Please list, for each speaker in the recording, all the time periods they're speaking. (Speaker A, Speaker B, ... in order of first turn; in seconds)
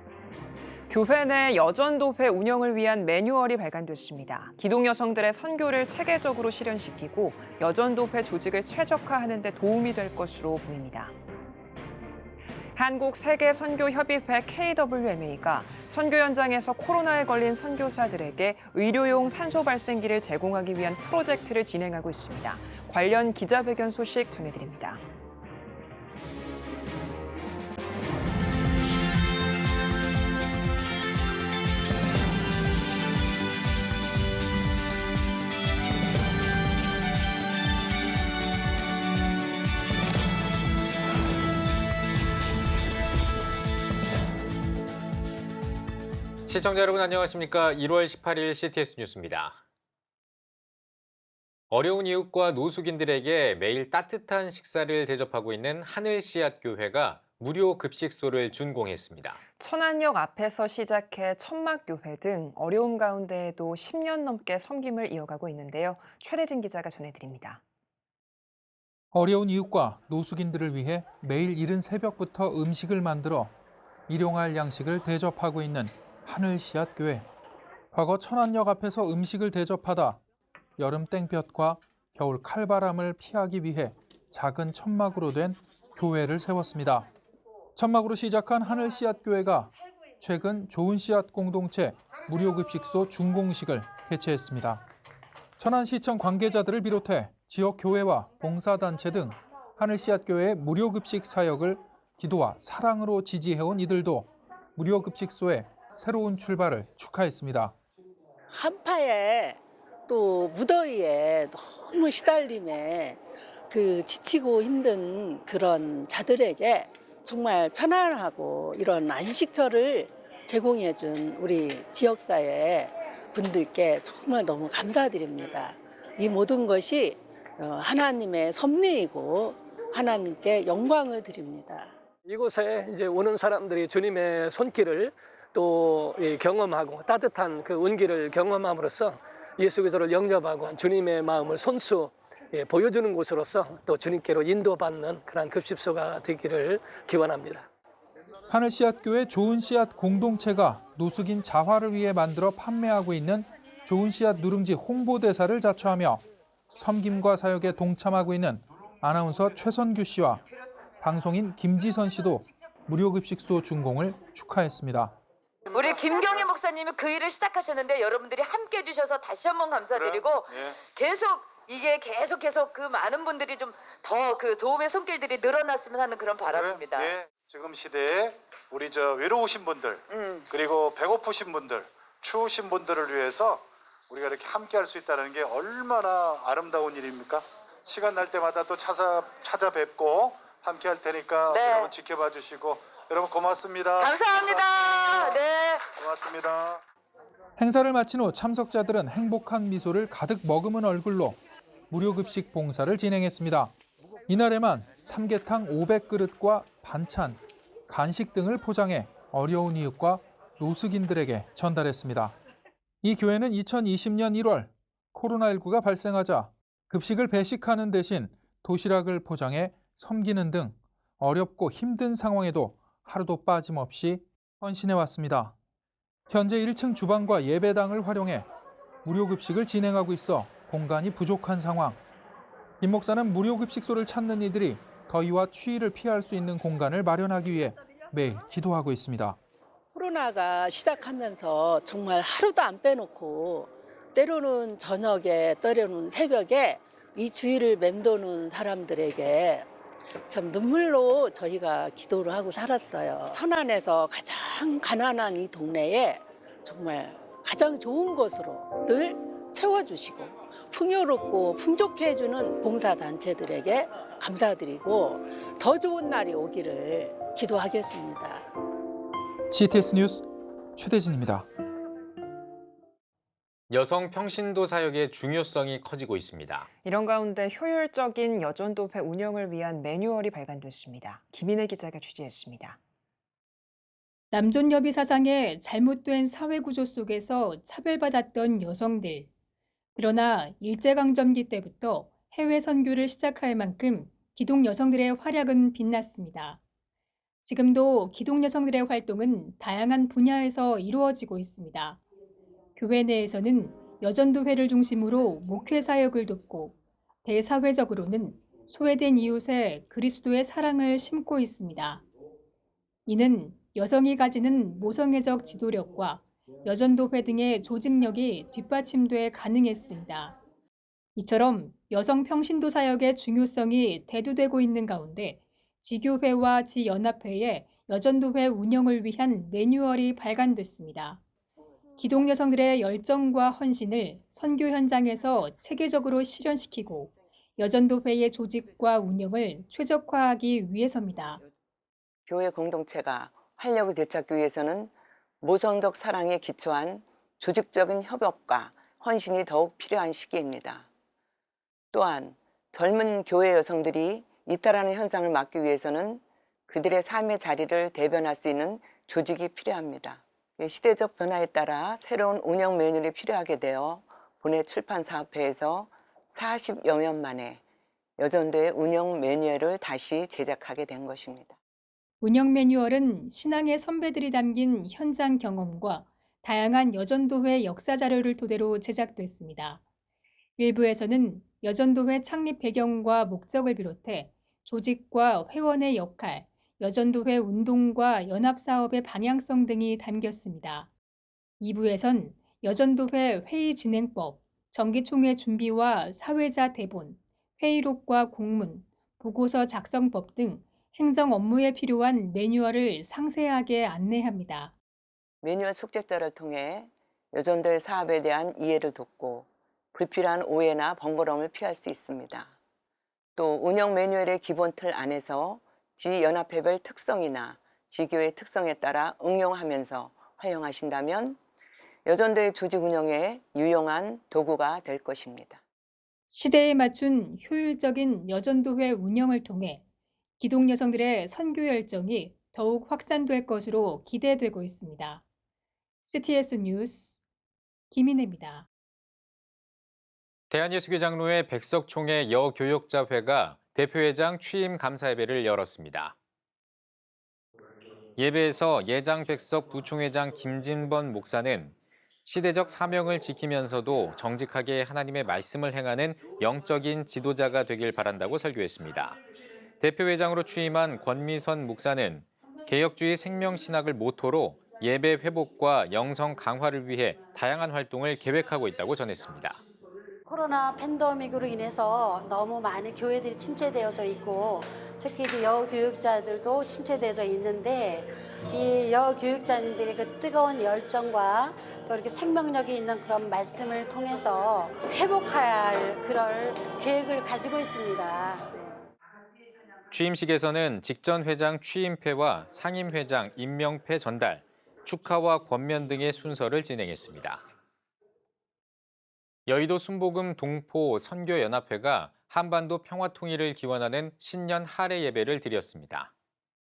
Speaker A: 0.9-11.1, 12.8-25.0, 59.6-67.6, 276.8-282.8
Speaker B: 46.5-49.6, 51.7-59.4, 273.7-276.7, 440.5-446.1, 448.2-459.2, 459.8-469.6, 489.9-497.4, 499.5-506.1
Speaker C: 69.1-73.5, 74.1-77.2, 77.9-80.2, 80.8-87.1, 87.7-94.8, 95.6-107.7, 148.5-160.4, 161.0-165.2, 197.6-201.4, 201.9-203.7, 204.3-212.3, 213.0-225.5, 226.3-228.4, 229.0-232.0, 232.8-239.4, 269.5-270.2, 270.8-271.5
Speaker D: 108.5-131.9, 239.9-249.7, 250.3-268.5
Speaker E: 132.2-147.7
Speaker F: 165.7-177.1, 191.5-191.9, 194.0-195.8
Speaker G: 169.9-170.8, 176.4-195.4, 195.9-196.8
Speaker H: 284.3-289.3, 289.9-296.6, 297.4-302.0, 302.8-312.0, 313.1-320.3, 321.1-331.2, 332.0-341.4, 372.2-379.8, 380.6-390.9, 391.6-404.7, 426.3-429.8, 430.4-435.2, 436.0-437.1, 437.9-438.7
Speaker I: 342.3-350.9, 351.9-367.6, 368.2-371.6, 405.4-412.5, 413.4-421.4, 422.0-425.6
Speaker J: 470.2-488.5